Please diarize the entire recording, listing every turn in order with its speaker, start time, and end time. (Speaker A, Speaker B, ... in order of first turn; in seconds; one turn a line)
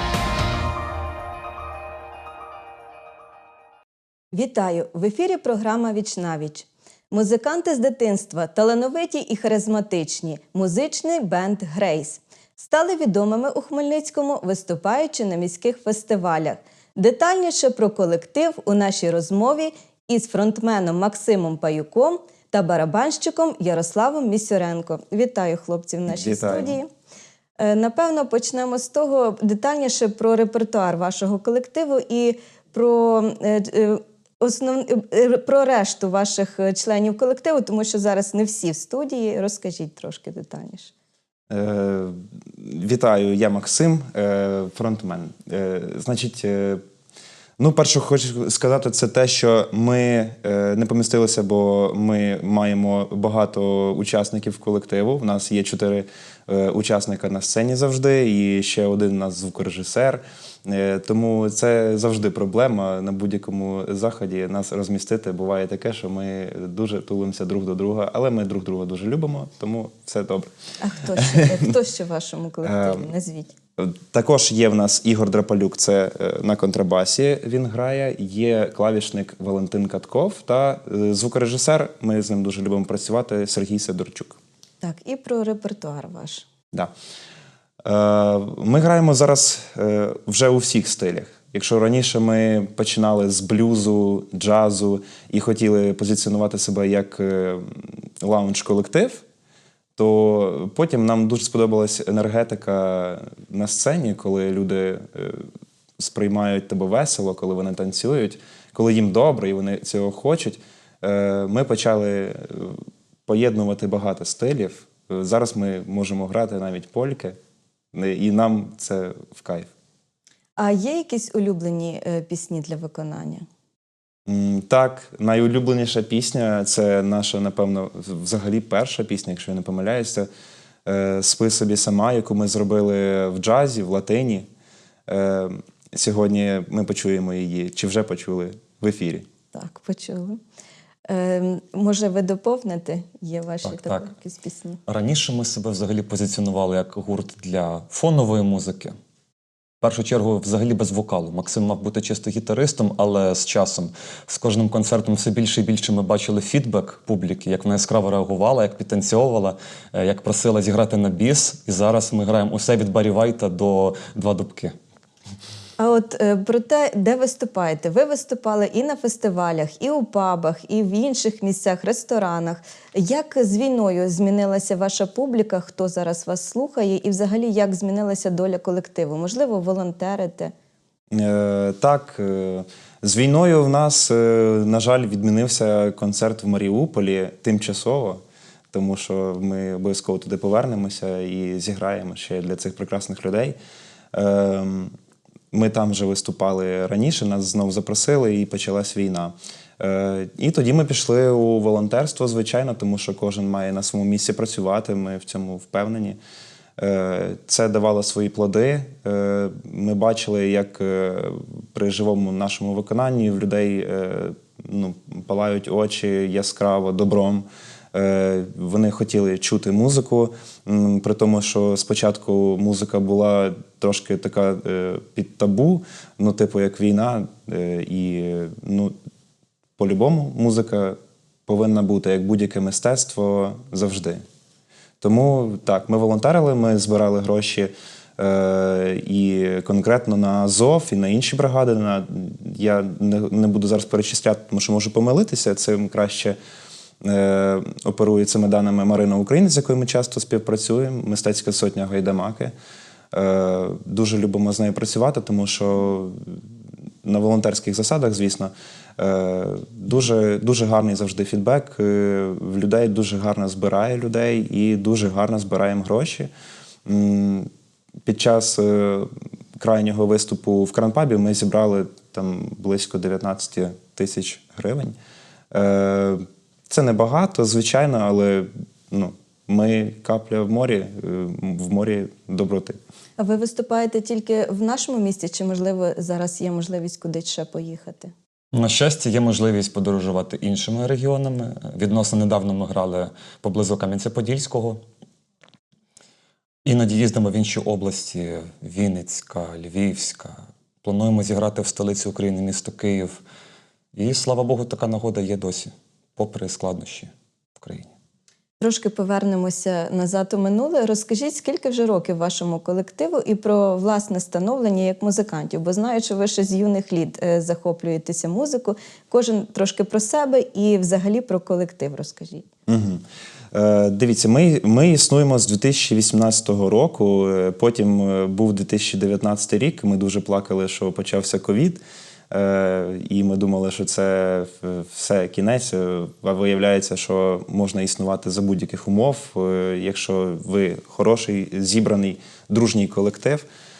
Speaker A: 4.3-26.9
Speaker B: 26.1-26.8
Speaker A: 27.6-40.9
Speaker B: 41.5-46.8
Speaker B: 47.6-70.5
Speaker A: 70.8-73.5
Speaker B: 71.0-71.7
Speaker B: 72.6-73.1
Speaker B: 73.8-84.4
Speaker A: 84.8-86.5
Speaker B: 87.8-99.2
Speaker B: 100.0-105.5
Speaker B: 106.0-117.3
Speaker B: 117.9-119.7
Speaker A: 120.6-123.5
Speaker B: 124.2-130.3
Speaker B: 130.8-134.5
Speaker B: 135.1-139.3
Speaker A: 139.5-140.4
Speaker A: 141.1-144.8
Speaker C: 143.7-144.1
Speaker C: 144.9-148.9
Speaker C: 149.8-164.7
Speaker A: 165.8-180.5
Speaker B: 181.1-193.6
Speaker B: 194.1-194.9
Speaker B: 195.5-206.2
Speaker B: 206.8-228.9
Speaker B: 229.8-234.2
Speaker B: 235.0-246.4
Speaker B: 247.0-252.5
Speaker B: 253.1-256.4
Speaker B: 257.0-266.3
Speaker B: 266.8-267.5
Speaker B: 268.0-274.9
Speaker B: 275.5-282.8
Speaker A: 283.2-288.1
Speaker C: 288.5-294.8
Speaker C: 296.6-303.2
Speaker C: 303.9-307.9
Speaker A: 308.6-322.5
Speaker B: 322.7-343.4